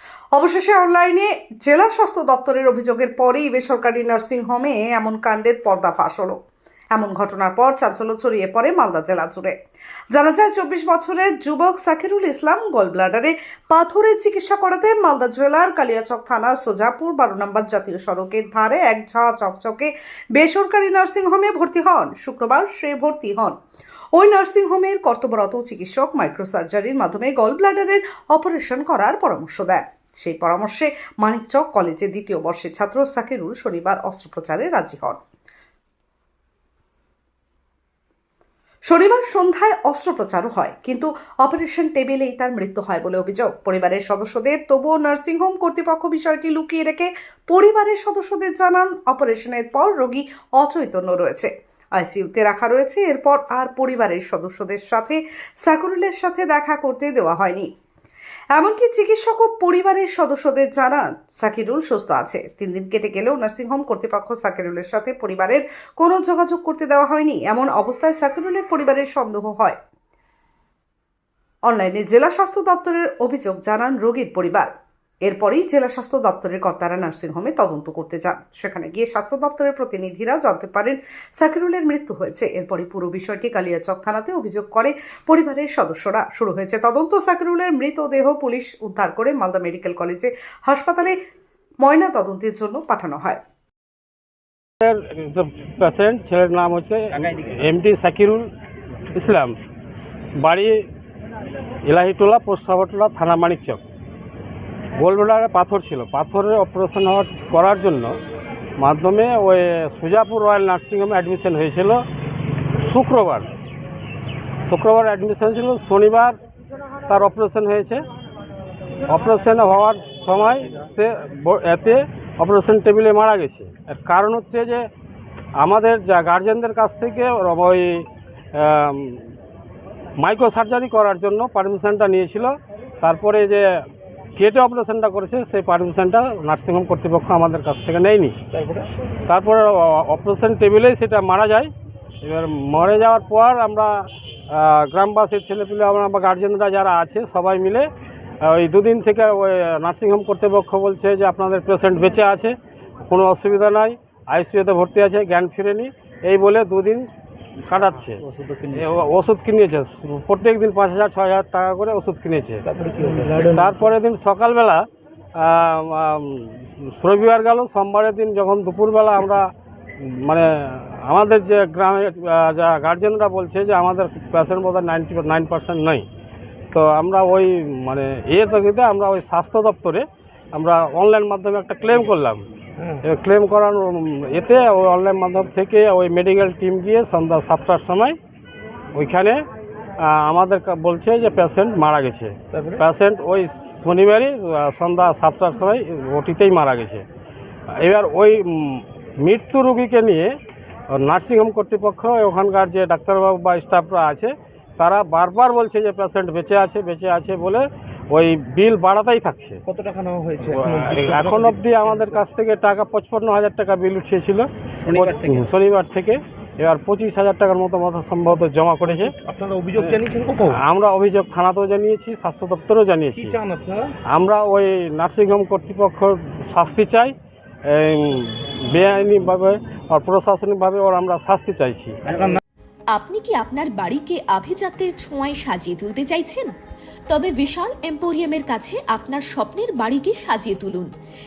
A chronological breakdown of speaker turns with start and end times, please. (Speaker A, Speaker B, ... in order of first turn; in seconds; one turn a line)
Speaker A: 0.3-6.4
Speaker A: 6.9-9.5
Speaker A: 10.1-23.5
Speaker A: 24.1-35.2
Speaker A: 38.9-57.7
Speaker A: 58.5-69.8
Speaker A: 71.7-74.7
Speaker A: 75.2-91.2
Speaker A: 91.8-93.4
Speaker B: 94.8-98.5
Speaker B: 99.1-99.6
Speaker B: 100.4-100.8
Speaker B: 101.8-103.8
Speaker B: 105.0-108.2
Speaker B: 108.8-112.0
Speaker B: 112.8-113.5
Speaker B: 114.7-116.3
Speaker B: 117.1-118.0
Speaker B: 119.1-124.8
Speaker B: 125.6-129.2
Speaker B: 130.2-133.7
Speaker B: 134.4-138.4
Speaker C: 138.5-138.9
Speaker B: 139.3-141.7
Speaker B: 142.2-147.9
Speaker B: 148.4-152.6
Speaker B: 153.1-157.1
Speaker B: 157.7-162.6
Speaker C: 158.3-158.9
Speaker C: 162.7-163.8
Speaker B: 163.4-164.8
Speaker B: 165.4-169.5
Speaker B: 170.0-176.1
Speaker B: 176.7-182.4
Speaker B: 183.0-188.2
Speaker B: 188.9-189.4
Speaker B: 190.0-197.1
Speaker C: 192.5-192.8
Speaker B: 197.8-200.3
Speaker B: 200.9-209.6
Speaker C: 209.7-212.2
Speaker B: 210.5-219.1
Speaker C: 214.9-215.4
Speaker C: 218.9-220.6
Speaker B: 219.8-223.4
Speaker C: 223.2-224.0
Speaker B: 224.1-227.1
Speaker B: 227.7-232.0
Speaker C: 232.1-232.4
Speaker D: 232.9-236.6
Speaker D: 237.1-240.9